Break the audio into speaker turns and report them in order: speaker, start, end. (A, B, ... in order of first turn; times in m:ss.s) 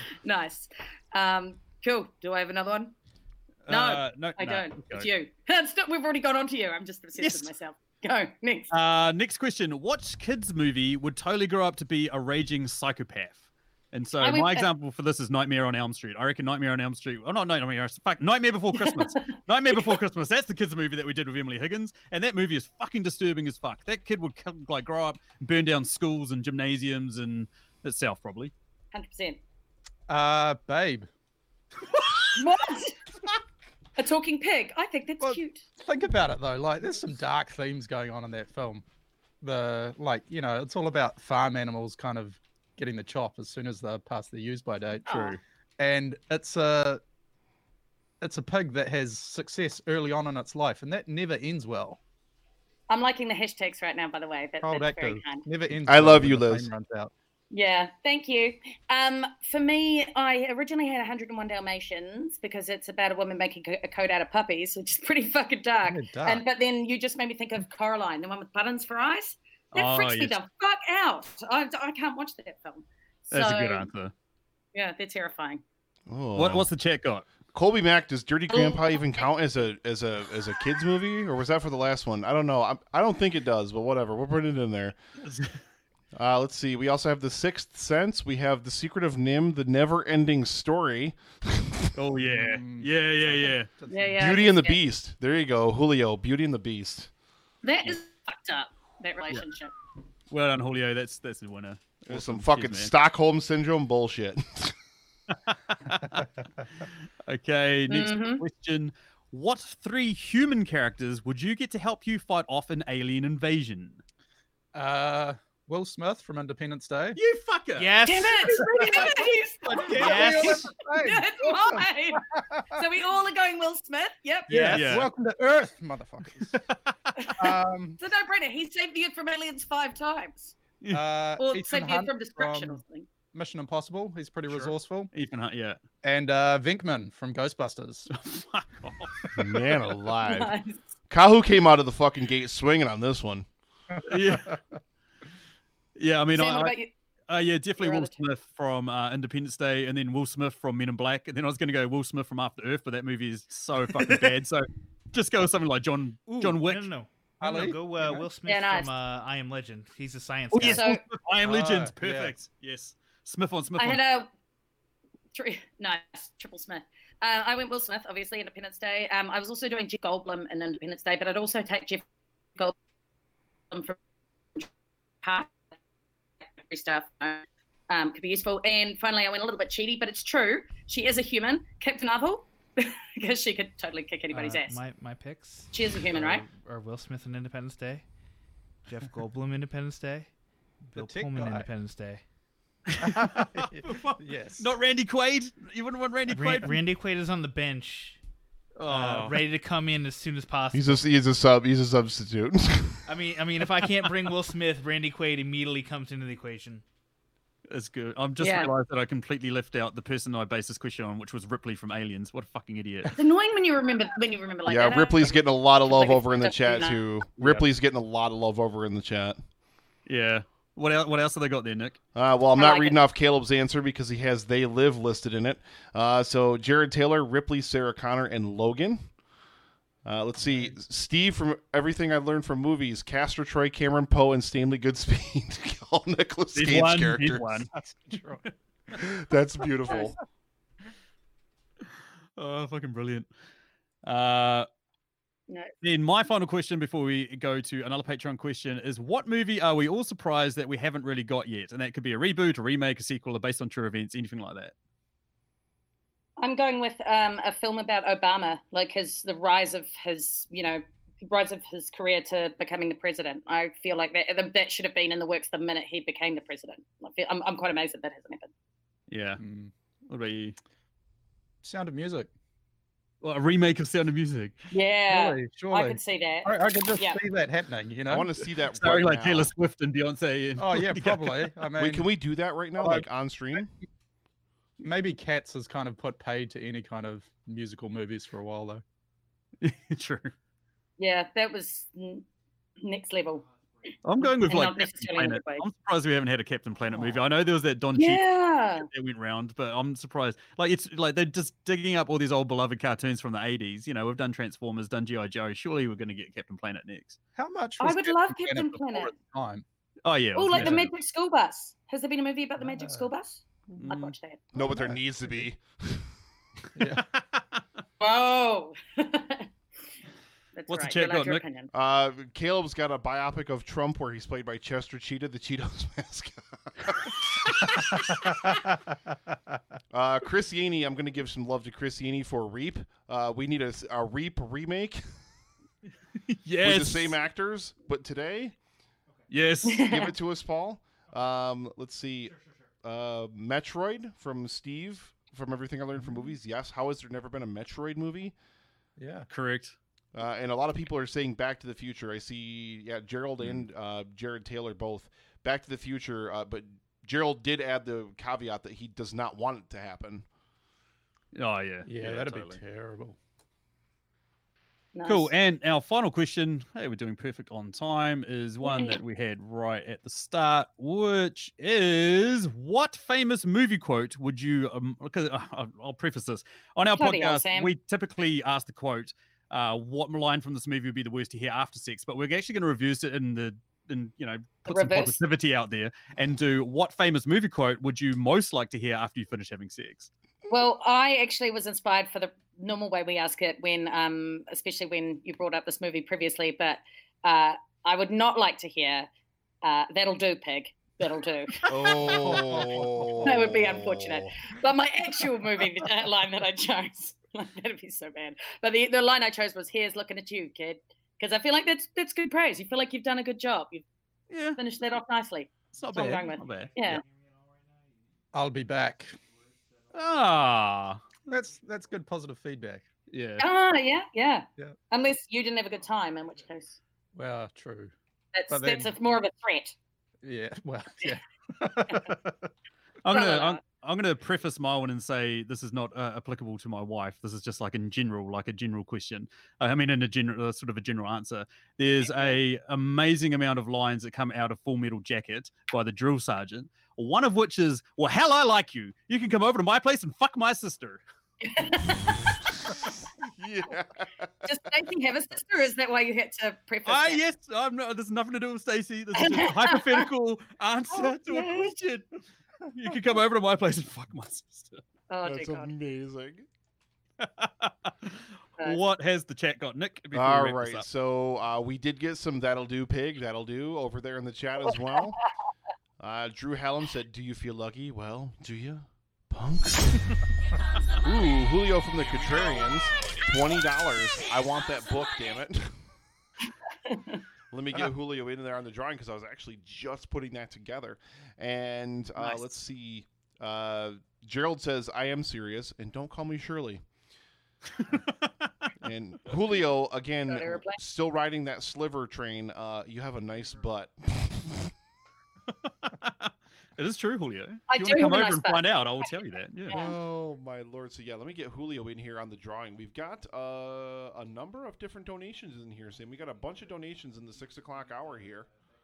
0:00.2-0:02.9 A
0:03.7-0:05.1 B
0:03.7-0:08.7 A
0:07.2-0:07.5 B
0:08.7-0:28.5 B
0:14.2-0:14.7 A
0:18.9-0:19.2 A
0:28.9-0:29.4 A
0:30.1-0:31.1 C
0:32.4-0:33.0 A
0:34.0-0:35.6 A
0:35.2-0:38.8 C
0:39.4-0:47.0 C
0:45.1-0:45.4 A
0:48.2-0:52.0 C
0:52.9-0:55.4 A
0:54.6-0:57.1 C
0:55.8-0:56.7 D
0:57.5-1:13.9 A
1:05.9-1:06.4 C
1:09.7-1:10.4 B
1:13.3-1:14.1 B
1:14.7-1:15.6 A
1:16.1-1:16.7 D
1:16.4-1:17.3 B
1:17.5-1:25.0 D
1:18.5-1:19.2 A
1:25.2-1:25.6 B
1:26.2-1:31.8 D
1:32.0-1:33.7 B
1:32.2-1:34.3 C
1:33.9-1:34.8 A
1:34.2-1:37.1 D
1:37.6-1:39.7 A
1:40.3-1:42.9 B
1:42.1-1:44.8 D
1:45.3-1:46.2 B
1:47.3-1:54.0 B
1:47.9-1:48.4 A
1:54.7-1:57.2 C
1:57.2-1:58.5 B
1:57.8-1:59.1 E
1:58.0-2:04.8 A
1:59.6-2:02.8 C
1:59.9-2:00.2 B
1:59.9-2:00.7 E
2:04.5-2:05.0 E
2:04.5-2:06.6 C
2:04.7-2:05.1 B
2:06.6-2:07.3 B
2:07.2-2:10.6 A
2:07.4-2:08.0 C
2:10.9-2:12.8 C
2:11.4-2:13.1 A
2:13.3-2:15.1 C
2:14.5-2:15.8 B
2:16.0-2:18.1 C
2:18.1-2:19.3 B
2:19.4-2:20.5 D
2:20.2-2:20.8 A
2:21.1-2:23.5 D
2:24.0-2:24.4 C
2:24.0-2:24.6 B
2:26.0-2:26.7 B
2:26.3-2:26.9 A
2:27.3-2:36.9 B
2:27.8-2:28.2 A
2:36.3-2:40.9 E
2:37.4-2:38.2 C
2:38.4-2:38.9 A
2:40.5-2:44.0 B
2:40.6-2:41.0 A
2:41.4-2:42.3 C
2:43.8-2:44.3 A
2:45.4-2:52.0 A
2:53.7-2:54.0 A
2:55.2-2:55.5 A
2:56.7-3:04.8 A
3:04.3-3:08.0 E
3:05.7-3:06.5 A
3:08.9-3:10.3 E
3:10.8-3:12.2 E
3:11.0-3:11.7 C
3:13.0-3:16.8 B
3:13.0-3:14.7 C
3:16.3-3:18.2 E
3:18.8-3:19.4 B
3:18.9-3:21.0 E
3:20.7-3:23.0 D
3:23.1-3:26.8 E
3:27.7-3:33.1 B
3:28.4-3:28.7 A
3:33.2-3:37.0 A
3:34.7-3:39.4 D
3:37.4-3:37.7 B
3:40.1-3:42.0 B
3:42.2-3:49.1 D
3:42.6-3:43.0 A
3:50.0-3:57.4 D
3:56.6-3:57.7 B
3:57.7-3:58.5 C
3:58.9-4:00.2 D
3:59.9-4:00.1 A
4:02.4-4:03.3 B
4:04.0-4:04.7 B
4:05.8-4:14.7 B
4:16.4-4:28.5 A
4:29.1-4:29.4 B
4:29.4-4:29.7 C
4:30.1-4:30.6 B
4:31.6-4:32.3 C
4:33.2-4:34.6 B
4:34.7-4:37.2 A
4:35.1-4:38.3 C
4:38.1-4:39.5 D
4:38.7-4:41.5 B
4:40.6-4:42.1 C
4:41.8-4:43.7 D
4:42.8-4:43.1 C
4:44.8-4:48.8 C
4:49.6-4:50.3 B
4:51.0-4:52.2 A
4:52.8-4:53.4 A
4:54.0-4:58.2 B
4:54.2-4:55.6 A
4:58.0-4:58.9 A
4:58.9-5:07.2 B
5:07.4-5:09.6 C
5:07.8-5:09.1 A
5:10.0-5:10.9 B
5:10.4-5:14.4 A
5:10.5-5:10.9 C
5:12.6-5:13.1 C
5:13.8-5:14.2 B
5:14.5-5:16.1 D
5:14.6-5:15.5 C
5:16.8-5:17.0 C
5:17.0-5:17.6 B
5:18.0-5:19.5 A
5:20.6-5:21.7 A
5:20.7-5:21.4 B
5:21.7-5:27.9 D
5:29.9-5:35.0 D
5:36.3-5:37.2 B
5:36.6-5:38.6 D
5:39.3-5:39.8 B
5:39.7-5:40.1 A
5:39.8-5:48.4 D
5:49.0-5:49.3 C
5:49.3-5:49.8 B
5:50.1-6:00.3 D
6:01.3-6:02.6 B
6:01.8-6:03.2 C
6:04.9-6:05.3 A
6:05.1-6:30.1 B
6:08.6-6:09.0 A
6:17.0-6:17.7 A
6:24.7-6:25.2 A
6:30.5-6:39.1 A
6:39.6-6:42.1 A
6:41.7-6:44.4 D
6:42.0-6:43.4 C
6:43.2-6:53.8 A
6:54.3-6:54.6 B
6:54.6-6:57.0 A
6:55.7-6:57.0 B
6:56.6-6:57.4 E
6:58.3-6:59.2 C
6:59.9-7:01.0 B
7:01.3-7:02.8 C
7:03.1-7:03.5 B
7:03.4-7:06.8 A
7:07.2-7:07.9 C
7:08.3-7:09.8 A
7:08.5-7:08.9 C
7:10.2-7:12.5 C
7:13.0-7:31.0 B
7:13.1-7:13.6 A
7:22.0-7:22.4 A
7:31.4-7:32.2 A
7:32.8-7:34.3 D
7:34.4-7:37.2 A
7:36.8-7:42.1 B
7:39.2-7:40.1 A
7:40.9-7:41.7 A
7:42.7-7:44.8 B
7:45.1-7:45.7 A
7:45.2-7:46.5 D
7:47.2-7:50.9 B
7:50.1-7:55.2 D
7:56.0-8:00.2 D
8:01.0-8:05.8 D
8:06.9-8:07.2 A
8:07.5-8:16.8 D
8:17.8-8:18.5 B
8:18.8-8:24.7 D
8:20.3-8:20.8 A
8:25.6-8:29.9 B
8:27.7-8:29.2 A
8:29.7-8:29.9 A
8:29.7-8:38.5 D